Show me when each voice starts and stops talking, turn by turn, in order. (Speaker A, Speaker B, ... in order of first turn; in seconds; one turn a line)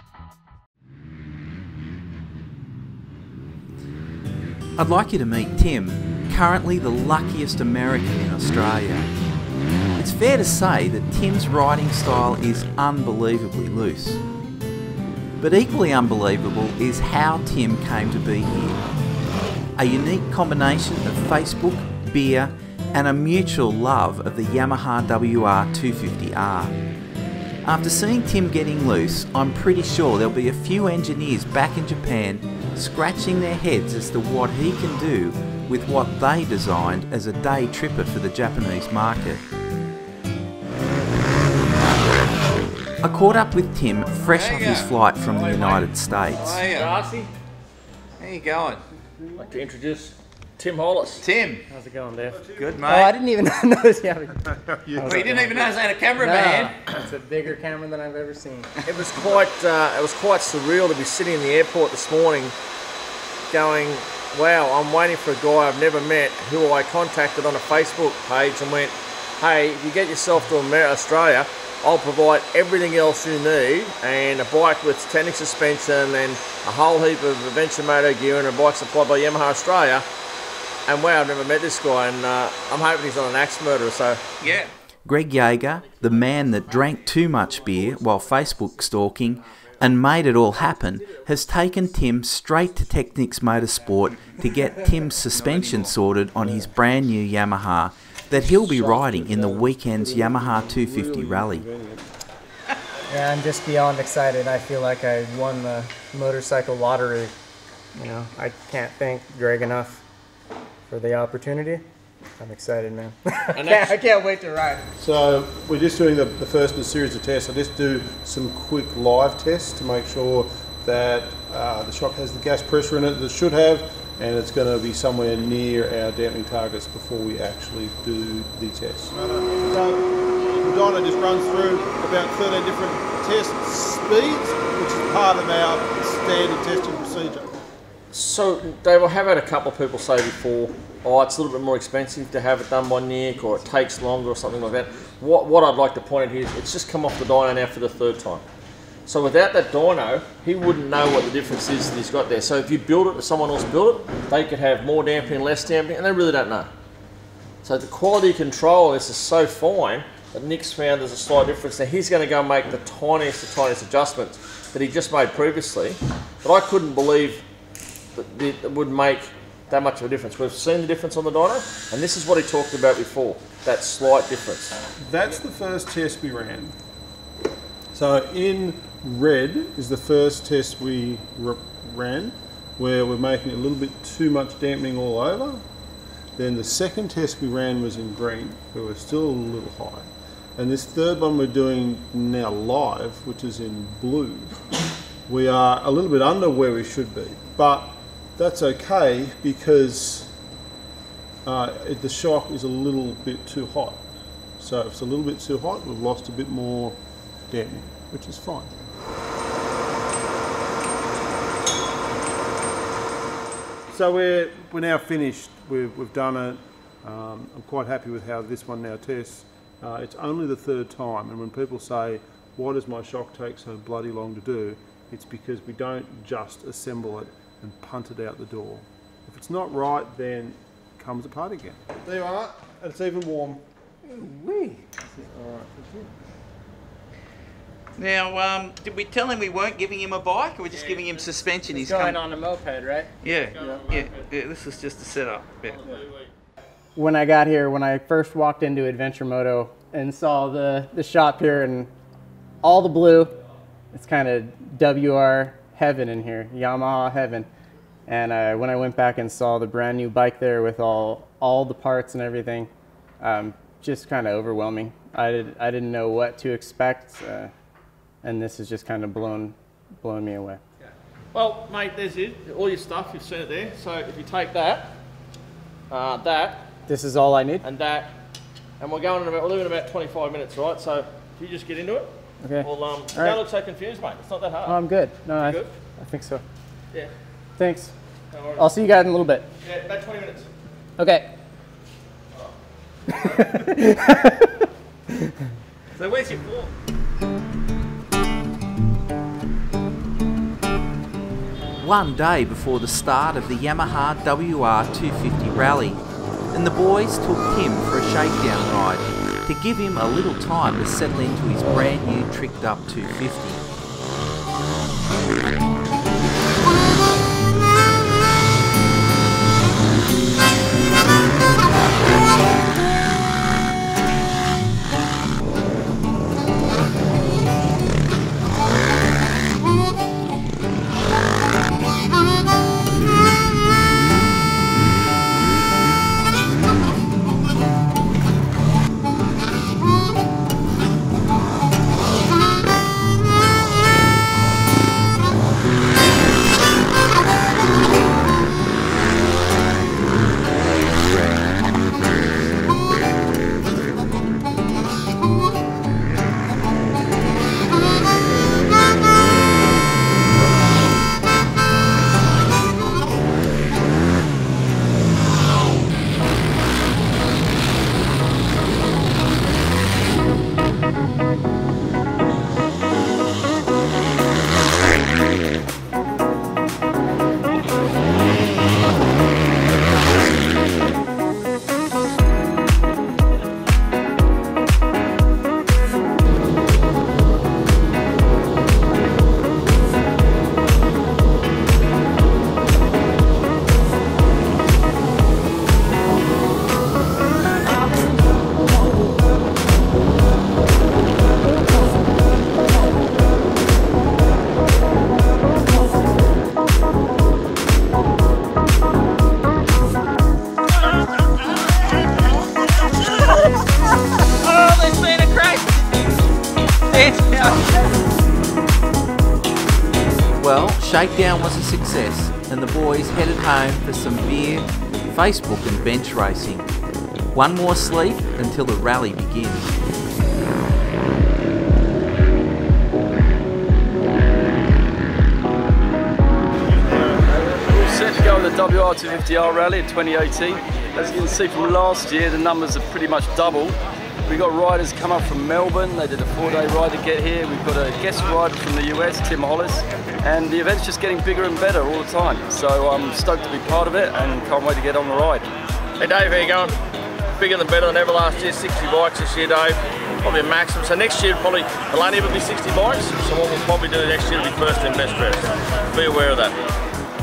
Speaker A: 4.8-9.1
Speaker A: 10.0-14.2
Speaker A: 15.4-18.8
Speaker A: 19.8-26.8
Speaker A: 27.6-39.4
Speaker A: 43.0-46.7
Speaker B: 46.4-47.3
Speaker B: 49.4-51.3
Speaker C: 51.7-58.9
Speaker D: 54.8-55.8
Speaker B: 58.9-62.5
Speaker B: 63.5-80.0
Speaker B: 80.9-84.2
Speaker A: 85.1-101.7
Speaker D: 98.5-102.1
Speaker C: 103.1-107.3
Speaker C: 108.0-110.0
Speaker C: 110.9-111.8
Speaker C: 112.4-114.8
Speaker B: 113.5-114.0
Speaker D: 115.0-130.0
Speaker D: 130.6-137.5
Speaker B: 138.1-148.5
Speaker B: 149.1-156.7
Speaker B: 157.6-167.4
Speaker B: 168.2-174.8
Speaker D: 175.0-176.8
Speaker D: 177.9-185.6
Speaker D: 186.4-194.6
Speaker D: 195.3-200.3
Speaker D: 201.4-204.1
Speaker D: 204.6-207.0
Speaker D: 207.5-208.8
Speaker D: 213.9-234.2
Speaker C: 234.3-234.8
Speaker D: 235.2-236.1
Speaker E: 238.0-242.2
Speaker C: 241.7-243.1
Speaker E: 243.2-245.8
Speaker C: 246.9-251.9
Speaker C: 252.6-253.3
Speaker C: 253.9-257.5
Speaker C: 258.1-267.5
Speaker C: 268.2-270.6
Speaker B: 271.3-275.0
Speaker B: 275.9-276.7
Speaker C: 276.9-277.6
Speaker B: 277.6-278.2
Speaker B: 278.8-284.8
Speaker C: 282.4-283.4
Speaker C: 284.6-286.4
Speaker B: 285.4-285.7
Speaker C: 287.6-287.9
Speaker B: 288.3-288.7
Speaker C: 288.6-289.5
Speaker B: 289.6-290.5
Speaker C: 291.0-291.3
Speaker C: 293.1-294.4
Speaker B: 293.2-293.5
Speaker B: 296.0-296.7
Speaker A: 301.8-306.0
Speaker A: 306.5-313.6
Speaker E: 414.4-415.8
Speaker E: 416.9-417.6
Speaker A: 420.4-426.7
Speaker A: 427.3-429.7
Speaker F: 437.3-443.8
Speaker F: 444.3-455.5
Speaker B: 456.0-456.8
Speaker B: 457.4-466.6